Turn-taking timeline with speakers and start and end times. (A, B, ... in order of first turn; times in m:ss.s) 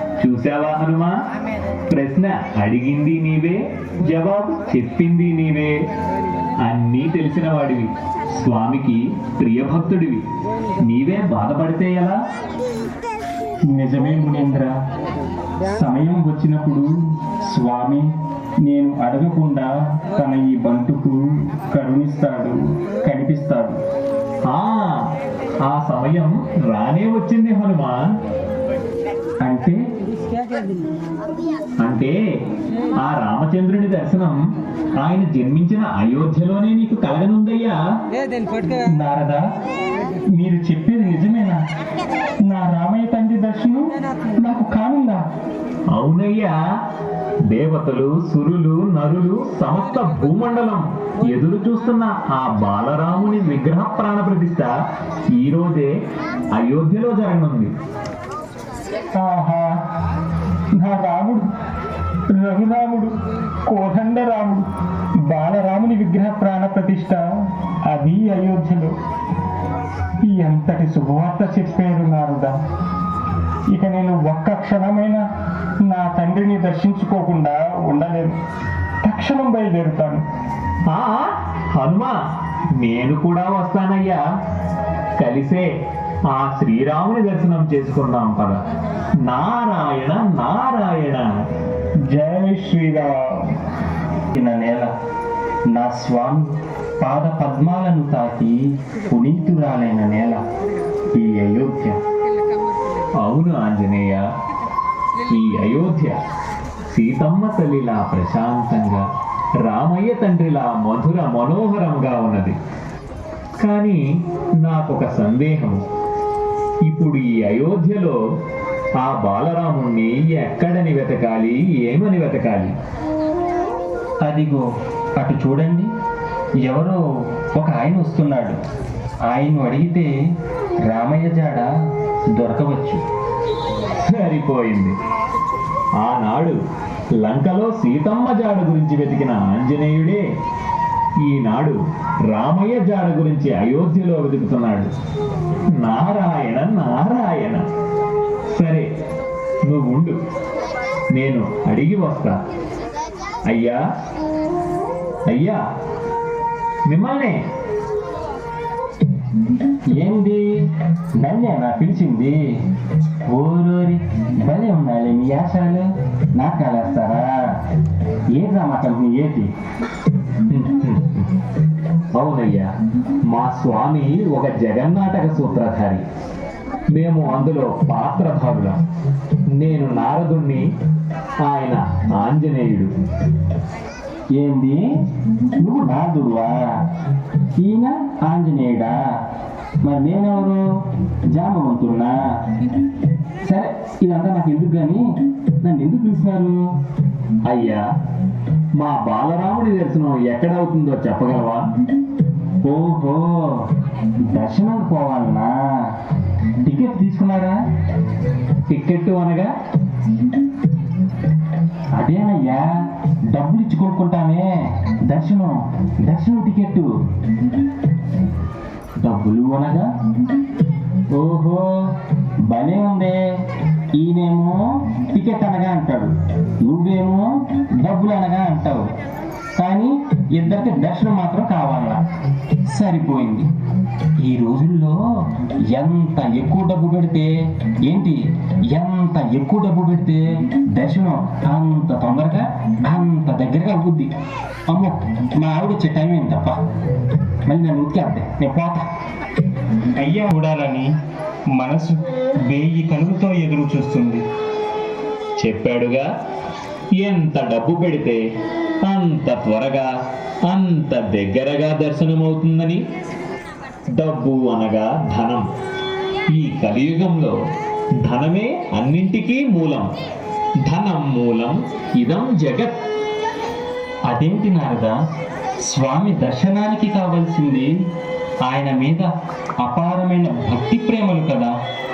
0:00.2-0:01.1 A
0:01.9-0:05.7 A
0:06.6-0:10.2 A
0:10.8-0:12.2 A
0:13.7-0:14.7 B
0:15.7-0:16.9 B
0:17.5-0:18.1 B
0:18.7-0:23.8 B
0:24.5-0:25.0 A
0:25.6-0:28.0 A
0:29.4-0:29.8 B
0:31.8-0:32.2 A
0:33.0-0:34.4 A
0:35.0-0:37.7 A
0:39.0-0:39.4 B
0:40.4-0:41.6 B
0:42.5-0:45.2 B
0:45.9-0:46.5 A
0:47.5-0:54.7 A
0:55.4-0:55.9 A
0:56.5-0:57.7 A
0:59.2-0:59.7 B
1:00.8-1:01.4 B
1:02.3-1:03.1 B
1:03.7-1:04.6 B
1:05.3-1:07.2 B
1:07.9-1:08.9 B
1:10.3-1:12.5 B
1:13.7-1:15.2 B
1:15.9-1:18.4 B
1:19.0-1:20.2 B
1:20.9-1:22.1 A
1:22.8-1:24.2 A
1:25.2-1:25.6 A
1:26.3-1:28.6 A
1:29.2-1:31.3 A
1:32.1-1:33.6 B
1:34.3-1:34.9 B
1:35.7-1:36.5 B
1:37.0-1:38.6 B
1:39.1-1:40.4 B
1:41.1-1:42.0 B
1:43.2-1:44.2 A
1:45.3-1:46.2 A
1:46.9-1:49.0 A
1:49.6-1:52.6 A
1:53.6-1:54.0 A
1:54.6-1:55.8 A
1:56.9-1:58.2 A
1:59.0-2:02.7 A
2:04.2-2:04.6 B
2:05.2-2:05.9 B
2:06.6-2:08.6 B
2:09.3-2:10.1 B
2:10.8-2:11.7 B
2:12.3-2:13.0 B
2:14.0-2:15.0 A
2:16.0-2:16.6 A
2:17.2-2:20.2 A
2:21.3-2:24.9 A
2:25.8-2:27.6 A
2:28.5-2:28.8 A
2:29.6-2:30.2 A
2:31.1-2:32.4 A
2:33.5-2:33.8 A
2:35.3-2:35.6 A
2:36.9-2:37.4 A
2:40.0-2:40.4 B
2:41.2-2:42.4 B
2:43.3-2:47.4 B
2:48.3-2:49.5 B
2:50.5-2:51.3 A
2:52.1-2:52.7 A
2:53.3-2:56.0 A
2:56.9-2:58.8 A
2:59.6-3:00.6 A
3:01.4-3:02.9 A
3:04.4-3:04.8 B
3:05.6-3:06.6 B
3:07.6-3:08.9 B
3:09.8-3:10.6 B
3:11.3-3:12.1 B
3:13.4-3:15.0 B
3:15.6-3:16.6 B
3:17.4-3:17.8 A
3:18.8-3:21.6 A
3:22.6-3:23.6 B
3:24.3-3:25.5 B
3:26.6-3:27.6 B
3:28.7-3:29.5 A
3:32.0-3:32.7 B
3:33.3-3:35.5 B
3:36.0-3:36.9 B
3:39.0-3:39.9 B
3:41.2-3:41.7 B
3:42.5-3:43.2 B
3:44.0-3:46.1 B
3:46.6-3:48.8 B
3:49.6-3:52.0 B
3:52.7-3:53.5 B
3:54.2-3:55.0 B
3:55.7-3:58.2 B
3:58.7-4:04.1 B
4:04.7-4:06.6 B
4:07.5-4:08.8 B
4:10.0-4:10.9 B
4:11.6-4:14.2 B
4:15.4-4:16.0 A
4:17.0-4:18.2 A
4:18.9-4:19.9 A
4:20.5-4:22.8 A
4:24.0-4:25.4 A
4:26.3-4:27.3 A
4:28.0-4:29.9 A
4:30.6-4:32.8 A
4:34.1-4:35.0 B
4:35.7-4:37.7 B
4:38.5-4:39.1 B
4:39.6-4:41.5 B